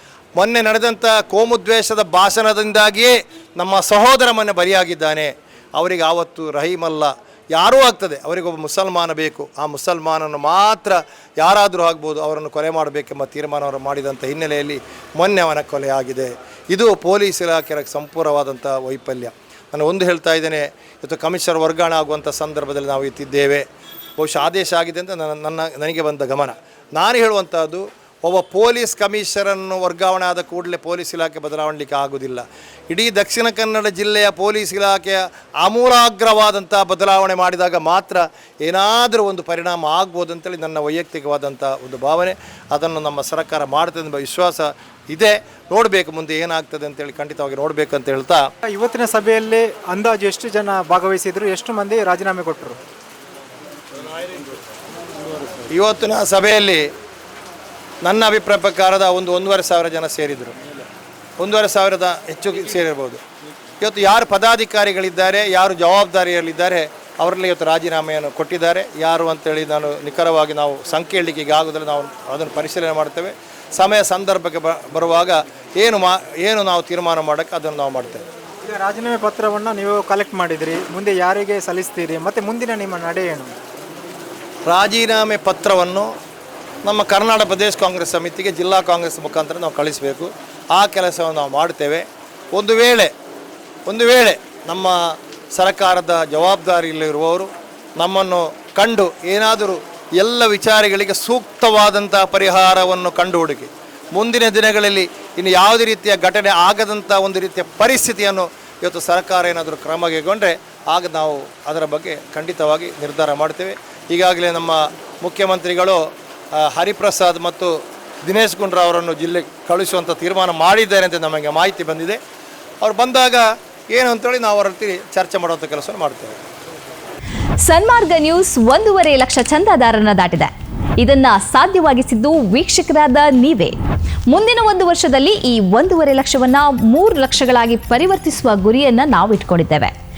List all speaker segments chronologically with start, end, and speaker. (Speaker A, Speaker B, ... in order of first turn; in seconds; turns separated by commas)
Speaker A: 0.3-23.6, Speaker A: 24.2-48.4, Speaker B: 48.7-52.8, Speaker A: 55.7-56.9, Speaker A: 58.0-60.5, Speaker A: 61.4-63.2, Speaker A: 63.8-78.2, Speaker B: 78.6-83.5, Speaker A: 84.7-86.1, Speaker A: 86.8-93.1, Speaker A: 93.9-122.2, Speaker A: 122.8-126.4, Speaker C: 127.6-133.8, Speaker C: 134.3-139.9